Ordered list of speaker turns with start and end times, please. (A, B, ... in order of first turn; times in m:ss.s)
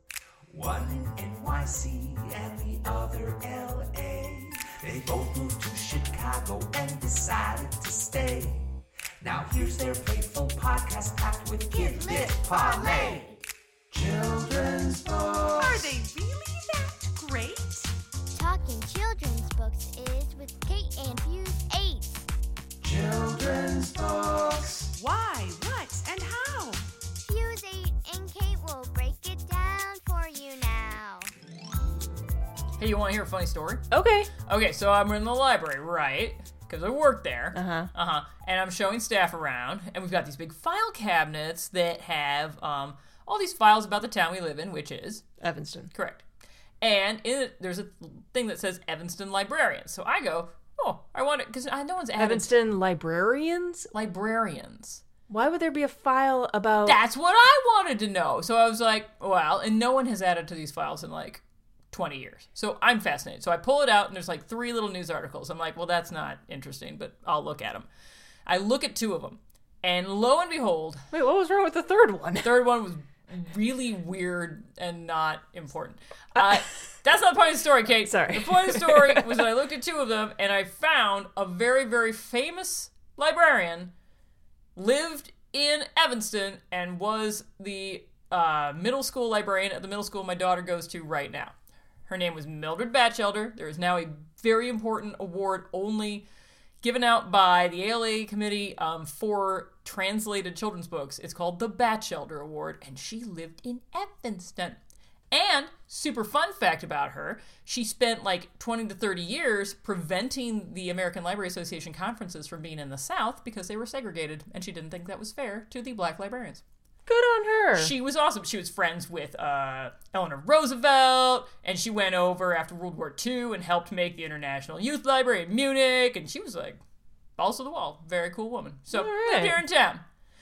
0:00.5-0:13.4 A
0:11.8-0:13.2 B
0:13.9-0:16.0 A
0:15.9-0:17.5 C
0:18.3-0:22.2 B
0:22.8-0:25.0 A
0:25.1-0:26.7 C
0:27.2-0:31.3 B
0:32.8-0:45.2 D
0:33.9-0:34.3 E
0:37.5-0:37.9 E
0:45.4-0:45.9 E
0:45.9-0:46.3 D
0:46.8-0:52.5 D
0:52.2-0:53.9 E
0:53.9-0:55.0 D
0:55.3-0:57.0 E
0:56.8-1:07.9 D
1:08.5-1:11.0 D
1:11.1-1:12.5 E
1:12.4-1:23.9 D
1:18.0-1:19.4 E
1:24.8-1:31.6 D
1:32.1-1:36.3 D
1:36.8-1:44.8 D
1:45.3-1:56.6 D
1:57.1-1:57.9 E
1:57.8-2:06.8 D
2:07.4-2:10.0 D
2:08.9-2:09.6 E